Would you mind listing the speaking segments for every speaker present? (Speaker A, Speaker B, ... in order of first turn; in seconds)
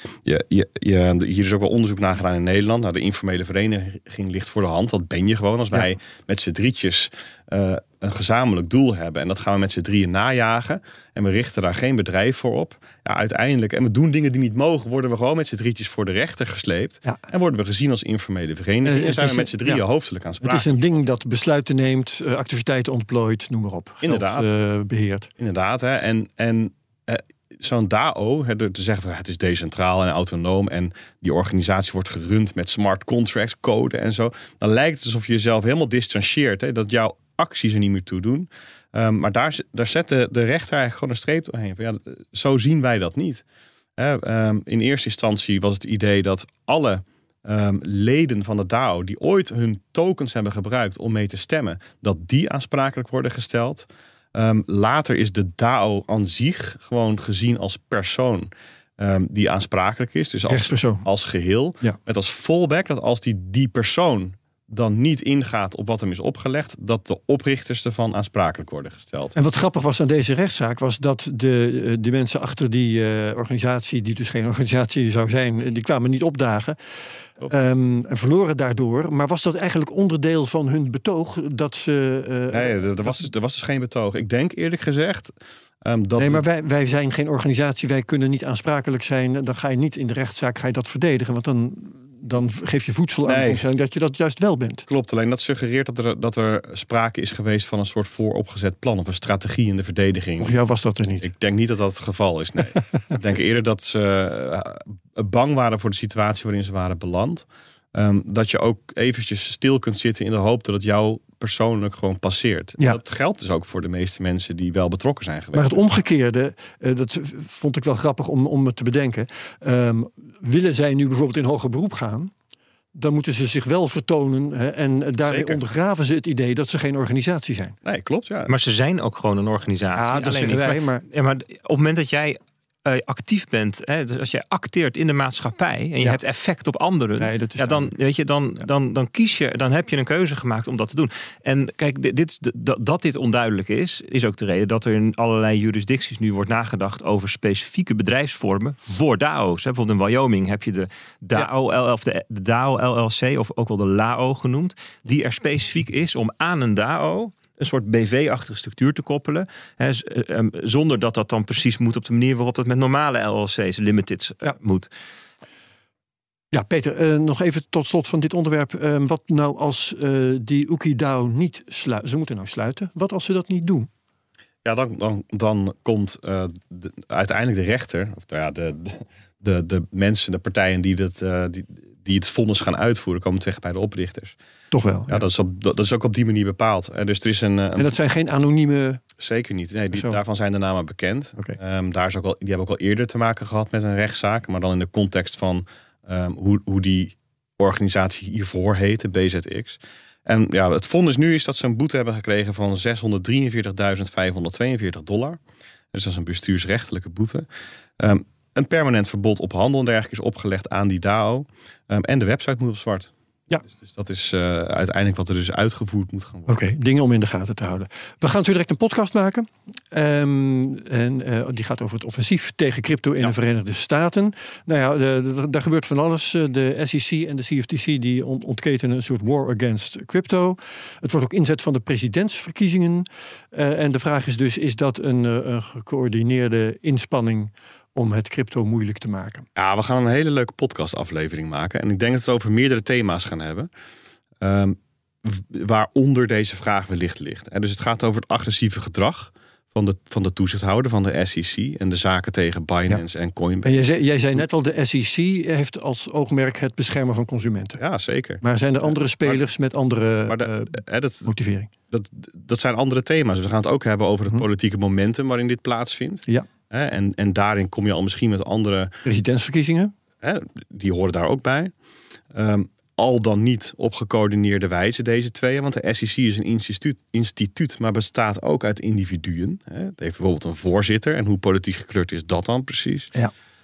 Speaker A: 0.2-20.8, 24.0-24.5, 25.4-43.4, 44.0-69.4, 82.5-86.4, 93.3-93.7, 94.9-100.6, 101.2-115.8, 125.2-125.6, 127.8-128.5, 174.6-184.4, 185.1-187.9, 189.2-205.4, 205.9-207.5, 208.0-213.1, 213.7-216.6, 239.6-243.7, 244.4-253.9, 257.8-259.4, 260.3-261.3, 261.9-268.9, 270.2-271.7, 272.3-283.1
Speaker B: 18.8-19.8, 20.4-25.3, 60.5-61.1, 69.3-76.8, 77.5-83.3, 86.2-94.9, 100.4-101.3, 115.5-122.3, 123.0-127.8, 130.0-131.1, 137.2-137.9, 166.5-173.9, 184.7-185.2, 187.8-189.0, 216.5-239.4, 253.6-257.8, 258.4-261.7, 269.1-269.9
Speaker C: 128.5-164.9